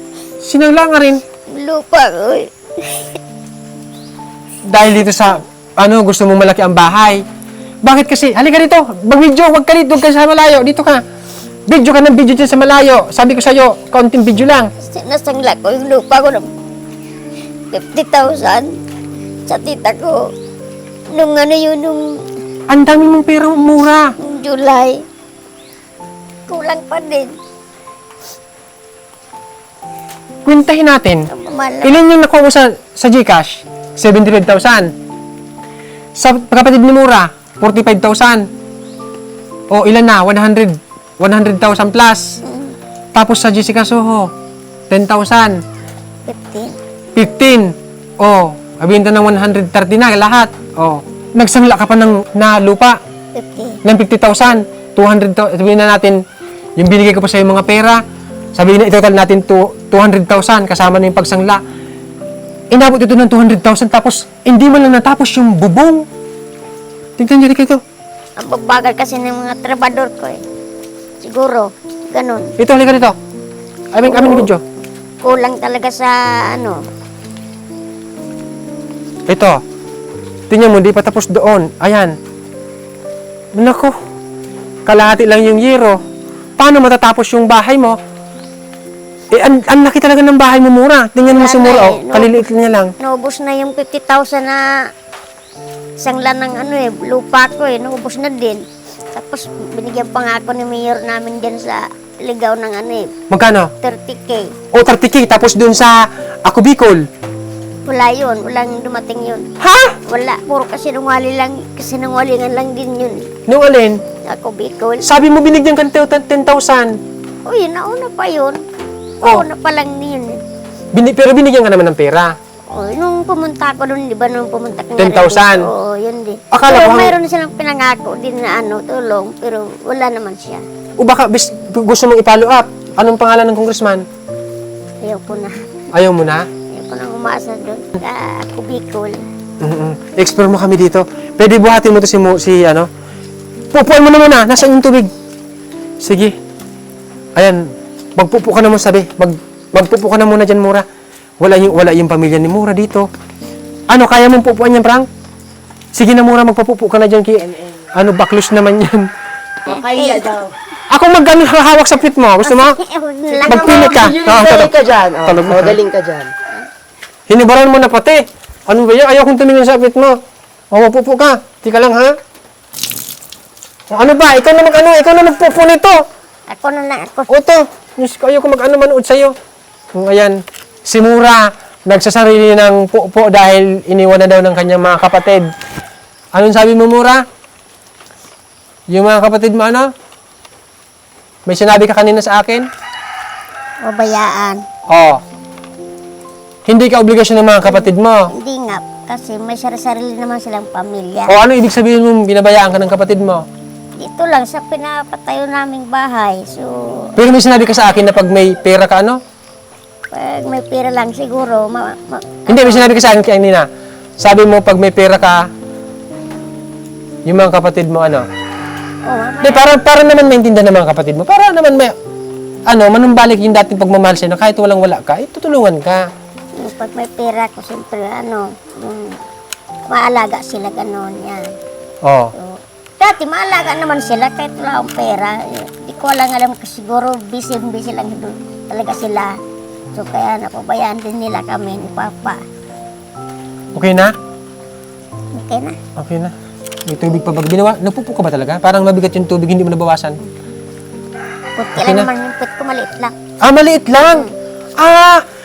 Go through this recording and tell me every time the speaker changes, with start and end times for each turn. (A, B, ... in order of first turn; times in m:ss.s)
0:00.4-0:01.2 A
0:01.5-0:03.2 B
0:04.6-0:07.2 A
0:07.8-0:11.0 A
0:11.7-0:14.7 A
0:14.8-0:16.5 B
0:17.7-0:18.8 B
0:19.5-0:20.2 B
0:21.1-0:22.2 B
0:22.7-0:24.1 A
0:24.2-0:25.0 B
0:26.5-0:27.3 B
0:30.4-0:31.3 A
0:31.3-0:32.0 B
0:31.8-0:34.9 A
0:36.2-0:38.5 A
0:39.7-0:42.4 A
0:42.4-0:42.7 B
0:43.1-0:44.3 A
0:44.9-0:45.6 A
0:46.3-0:46.8 B
0:47.2-0:53.0 A
0:53.3-0:53.8 B
0:53.8-0:56.2 A
0:56.8-0:58.0 A
0:58.5-1:01.6 A
1:02.7-1:06.1 A
1:07.2-1:07.8 A
1:08.4-1:10.4 B
1:11.2-1:12.5 B
1:12.6-1:13.2 A
1:13.9-1:14.6 A
1:14.1-1:14.4 B
1:15.2-1:16.8 B
1:19.3-1:19.6 A
1:20.5-1:22.2 A
1:23.5-1:23.9 A
1:24.8-1:26.0 A
1:26.6-1:28.0 A
1:29.3-1:32.9 A
1:31.2-1:32.4 B
1:33.0-1:34.8 B
1:36.0-1:43.1 B
1:43.3-1:43.7 A
1:43.8-1:44.5 B
1:44.7-1:47.0 A
1:47.8-1:49.5 B
1:49.6-1:50.0 A
1:50.1-1:53.3 B
1:53.5-1:54.0 A
1:54.3-1:55.0 B
1:55.0-1:57.0 A
1:57.4-1:58.6 B
1:59.2-2:00.4 B
2:00.9-2:02.3 A
2:02.7-2:10.6 B
2:05.0-2:05.7 A
2:06.5-2:07.2 A
2:11.0-2:14.0 A
2:15.0-2:15.5 B
2:15.9-2:16.5 A
2:16.7-2:19.2 B
2:19.6-2:22.9 A
2:23.7-2:25.1 A
2:26.0-2:26.3 A
2:27.4-2:30.8 A
2:31.4-2:33.1 A
2:33.9-2:35.1 A
2:35.9-2:39.1 A
2:39.6-2:40.5 C
2:39.7-2:40.2 B
2:40.9-2:42.8 A
2:42.4-2:44.2 B
2:43.3-2:46.3 C
2:43.5-2:44.7 A
2:45.2-2:45.8 A
2:47.3-2:50.2 A
2:50.7-2:52.2 A
2:53.9-2:56.0 A
2:56.5-2:57.3 B
2:57.3-2:59.3 A
2:59.9-3:05.4 A
3:06.3-3:07.2 A
3:08.9-3:09.9 A
3:11.4-3:12.7 A
3:13.8-3:14.6 B
3:14.9-3:15.2 A
3:16.6-3:18.3 A
3:17.6-3:21.3 B
3:21.3-3:23.4 A
3:24.0-3:27.1 B
3:27.2-3:29.2 A
3:30.1-3:33.0 B
3:32.5-3:35.5 A
3:37.2-3:38.2 A
3:39.0-3:39.7 B
3:39.4-3:41.9 A
3:42.7-3:46.0 A
3:46.6-3:49.2 B
3:49.9-3:51.5 B
3:52.0-3:52.3 A
3:52.4-3:59.4 B
3:59.9-4:02.4 B
4:03.7-4:04.1 A
4:05.3-4:05.8 B
4:06.0-4:06.3 A
4:06.9-4:10.2 A
4:11.6-4:13.1 B
4:11.8-4:12.1 A
4:13.4-4:14.3 A
4:14.8-4:15.2 A